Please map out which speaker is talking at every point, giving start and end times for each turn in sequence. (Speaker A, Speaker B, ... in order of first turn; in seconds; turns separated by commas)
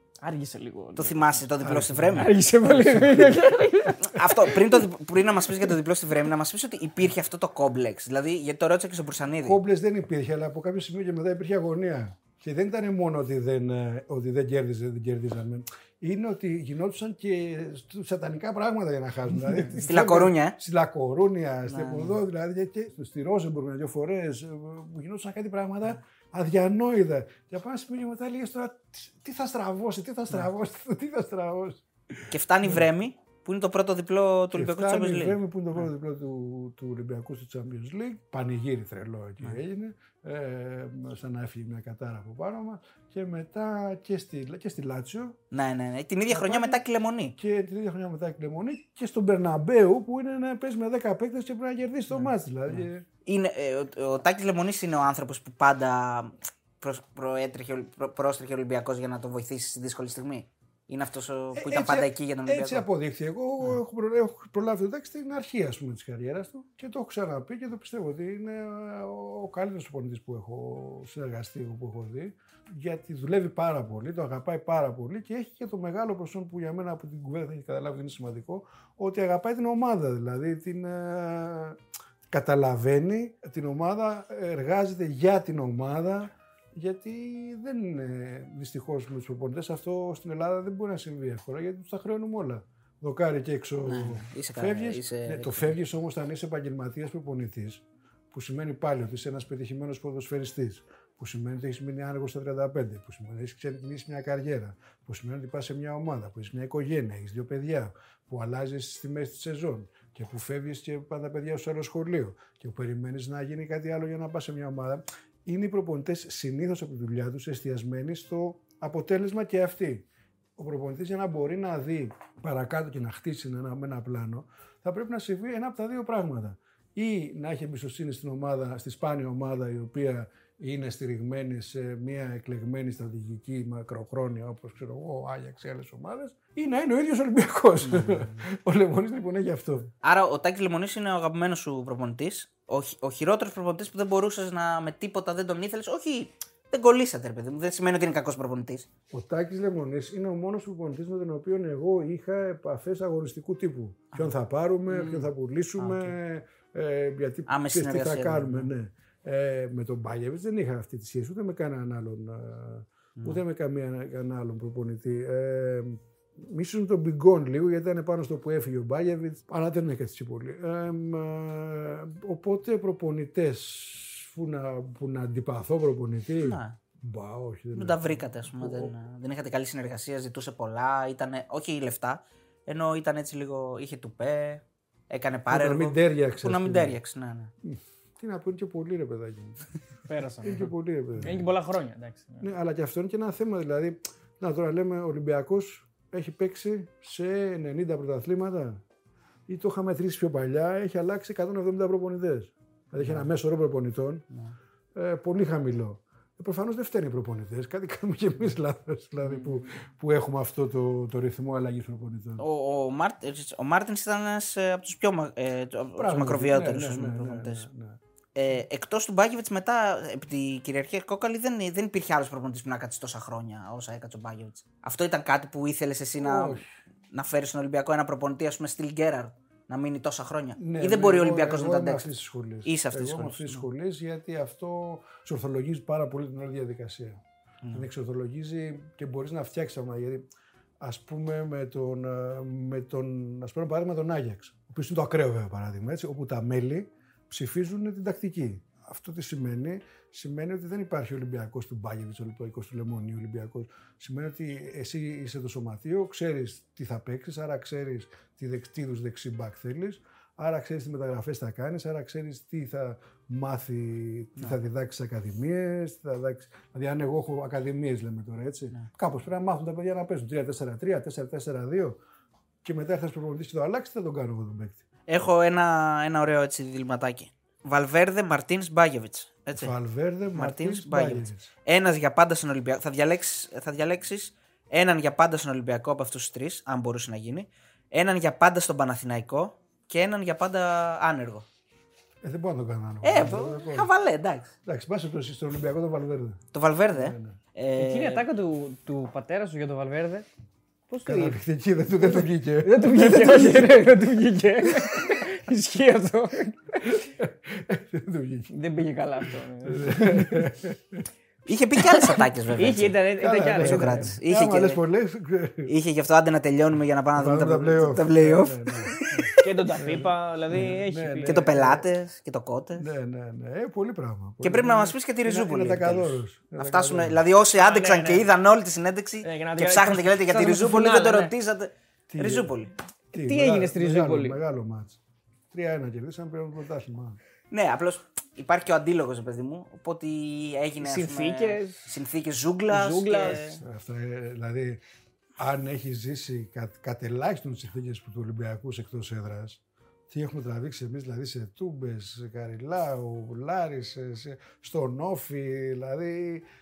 Speaker A: 0.2-1.4, Speaker B: 1.0-2.3, Speaker C: 1.6-3.5, Speaker A: 2.1-4.8, Speaker B: 4.0-9.6, Speaker C: 9.4-32.9, Speaker B: 19.9-20.6, Speaker B: 21.7-22.2, Speaker B: 32.3-35.4, Speaker C: 34.5-45.4, Speaker B: 45.5-47.4, Speaker C: 46.3-46.8, Speaker C: 47.4-53.0, Speaker B: 52.1-62.9, Speaker C: 61.6-120.1, Speaker B: 93.9-95.7, Speaker C: 120.6-139.9, Speaker B: 137.9-138.3, Speaker B: 140.0-148.9, Speaker C: 149.1-178.9, Speaker B: 154.9-156.1, Speaker B: 157.5-158.7, Speaker B: 176.4-176.8, Speaker B: 177.8-187.5, Speaker C: 185.5-187.0, Speaker C: 187.6-189.7, Speaker A: 190.1-192.5, Speaker C: 190.4-191.5, Speaker C: 192.4-198.8, Speaker C: 199.5-204.3, Speaker B: 203.0-203.3, Speaker C: 204.9-212.4, Speaker B: 212.4-217.6, Speaker C: 216.0-218.0, Speaker B: 218.3-232.1, Speaker C: 226.2-226.8, Speaker C: 230.6-240.2, Speaker B: 232.7-233.7, Speaker C: 240.8-272.0, Speaker C: 272.6-274.8, Speaker B: 275.1-279.7, Speaker C: 279.6-281.5, Speaker B: 280.3-291.5, Speaker C: 292.2-293.9, Speaker B: 293.0-294.5, Speaker C: 294.6-296.4, Speaker B: 296.5-298.2, Speaker C: 296.9-297.4, Speaker A: 297.8-300.3, Speaker A: 300.9-301.4, Speaker C: 301.0-303.7, Speaker A: 302.0-307.0, Speaker C: 306.8-308.5, Speaker A: 308.5-310.5, Speaker C: 309.6-311.1, Speaker B: 311.5-313.0, Speaker A: 312.6-314.2, Speaker C: 313.2-315.7, Speaker B: 313.6-314.8, Speaker B: 315.7-319.4, Speaker C: 317.1-321.9, Speaker A: 319.4-321.5, Speaker B: 321.2-322.9, Speaker C: 322.8-327.2, Speaker B: 324.4-332.7, Speaker A: 327.6-328.3, Speaker A: 329.2-331.3, Speaker C: 332.1-332.5, Speaker A: 333.1-334.4, Speaker C: 333.1-335.0, Speaker C: 335.5-337.2, Speaker B: 337.5-343.6, Speaker A: 340.8-341.9, Speaker A: 342.7-343.6, Speaker C: 343.6-344.8, Speaker C: 345.4-356.5